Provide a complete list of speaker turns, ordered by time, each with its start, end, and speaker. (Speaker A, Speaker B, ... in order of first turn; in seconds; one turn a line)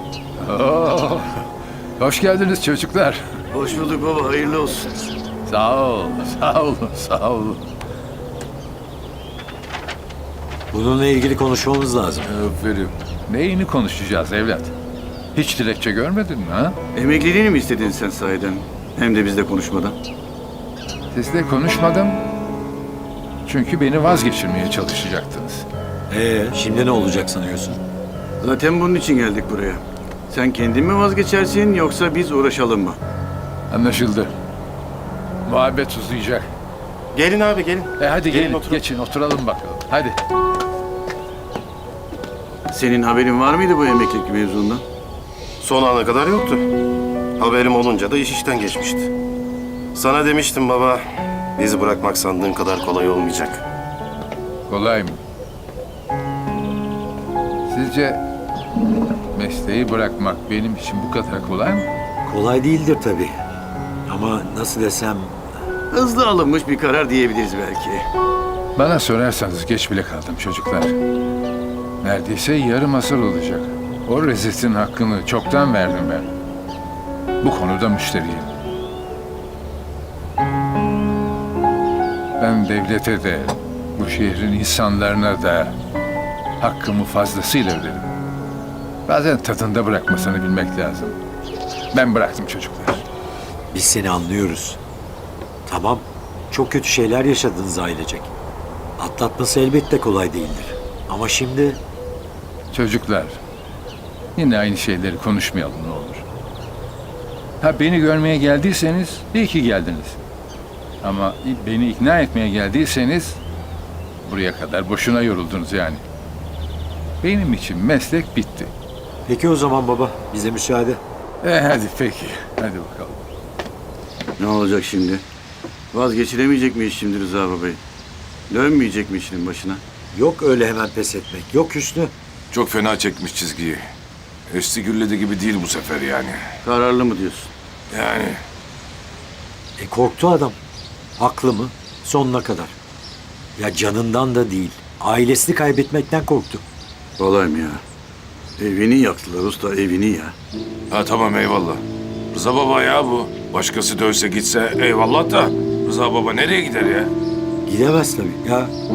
Speaker A: 0.4-1.4
Speaker A: 2.0-3.2
Speaker B: 3.5-5.1
Speaker A: 5.5-7.6
Speaker C: 10.7-12.3
Speaker D: 12.2-12.9
Speaker A: 13.3-14.7
Speaker A: 15.3-16.8
Speaker B: 16.9-19.9
Speaker A: 21.1-22.2
Speaker A: 23.4-25.6
Speaker C: 26.1-27.8
Speaker B: 28.4-33.0
Speaker A: 33.7-34.3
Speaker A: 35.4-36.5
Speaker E: 37.1-38.8
Speaker A: 38.0-40.2
Speaker B: 42.7-44.8
Speaker E: 45.6-46.7
Speaker E: 47.4-49.1
Speaker E: 49.9-53.6
Speaker A: 54.7-55.2
Speaker A: 57.7-58.2
Speaker A: 59.3-61.9
Speaker C: 62.2-63.3
Speaker C: 64.1-65.4
Speaker B: 65.9-68.1
Speaker A: 68.8-71.0
Speaker A: 72.0-76.3
Speaker A: 77.4-78.5
Speaker A: 82.4-85.8
Speaker A: 86.6-88.1
Speaker A: 89.0-91.2
Speaker A: 91.9-93.0
Speaker C: 93.7-94.8
Speaker C: 95.7-98.3
Speaker C: 99.0-101.8
Speaker A: 102.7-103.4
Speaker A: 104.3-106.2
Speaker A: 107.6-110.2
Speaker A: 111.0-113.4
Speaker A: 114.2-116.0
Speaker A: 117.2-118.7
Speaker C: 119.3-121.0
Speaker A: 121.4-123.2
Speaker B: 124.4-125.2
Speaker B: 125.9-127.8
Speaker B: 128.5-129.8
Speaker C: 130.1-132.1
Speaker D: 132.5-133.8
Speaker D: 134.5-136.4
Speaker B: 136.6-137.5
Speaker D: 137.9-138.4
Speaker C: 139.8-140.6
Speaker C: 141.2-142.7
Speaker C: 143.6-146.6
Speaker B: 147.2-147.8
Speaker B: 148.6-150.3
Speaker D: 150.9-157.1
Speaker C: 157.6-158.7